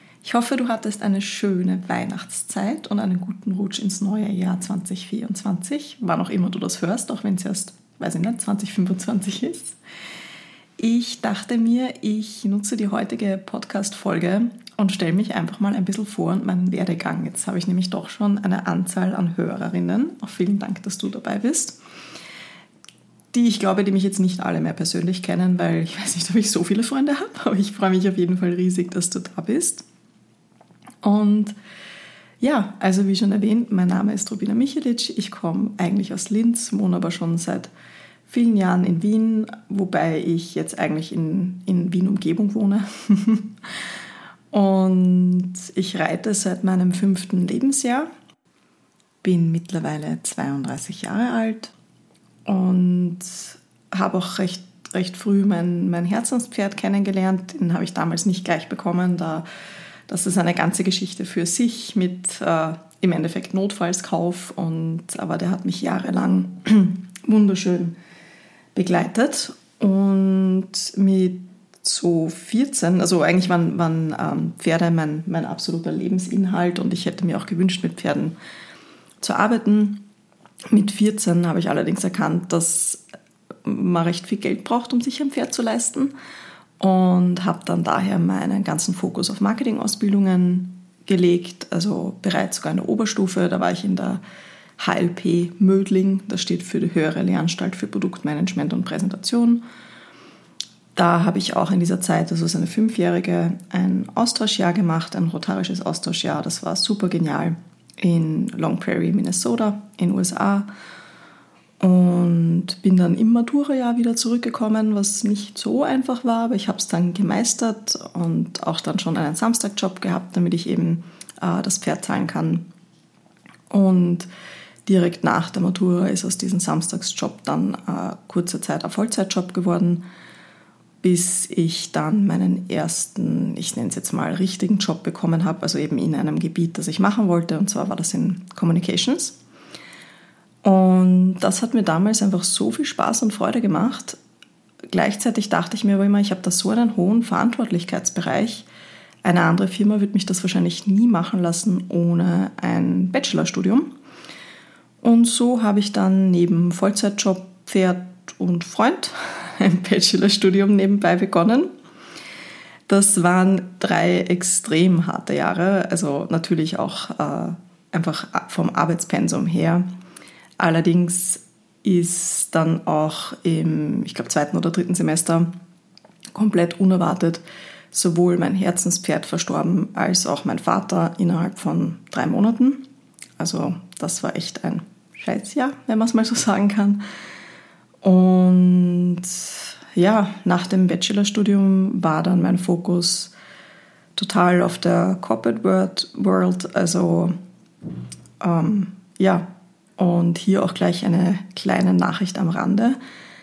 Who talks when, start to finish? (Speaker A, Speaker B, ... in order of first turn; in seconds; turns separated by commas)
Speaker A: 0.2-9.8, Speaker A: 10.8-21.8, Speaker A: 23.3-29.8, Speaker A: 31.0-31.5, Speaker A: 32.4-37.7, Speaker A: 38.3-43.6, Speaker A: 44.5-48.1, Speaker A: 49.2-51.7, Speaker A: 52.5-59.4, Speaker A: 60.1-67.9, Speaker A: 68.7-78.3, Speaker A: 79.2-80.0, Speaker A: 80.7-83.0, Speaker A: 83.6-86.1, Speaker A: 86.8-94.2, Speaker A: 94.8-99.6, Speaker A: 100.9-110.7, Speaker A: 111.8-122.7, Speaker A: 123.7-124.3, Speaker A: 124.8-130.0, Speaker A: 131.0-139.4, Speaker A: 140.6-144.2, Speaker A: 144.9-148.7, Speaker A: 149.2-153.9, Speaker A: 155.0-161.7, Speaker A: 162.9-169.8, Speaker A: 170.6-175.5, Speaker A: 176.3-182.8, Speaker A: 183.4-187.0, Speaker A: 188.0-193.3, Speaker A: 194.2-197.3, Speaker A: 198.4-199.5, Speaker A: 200.0-203.0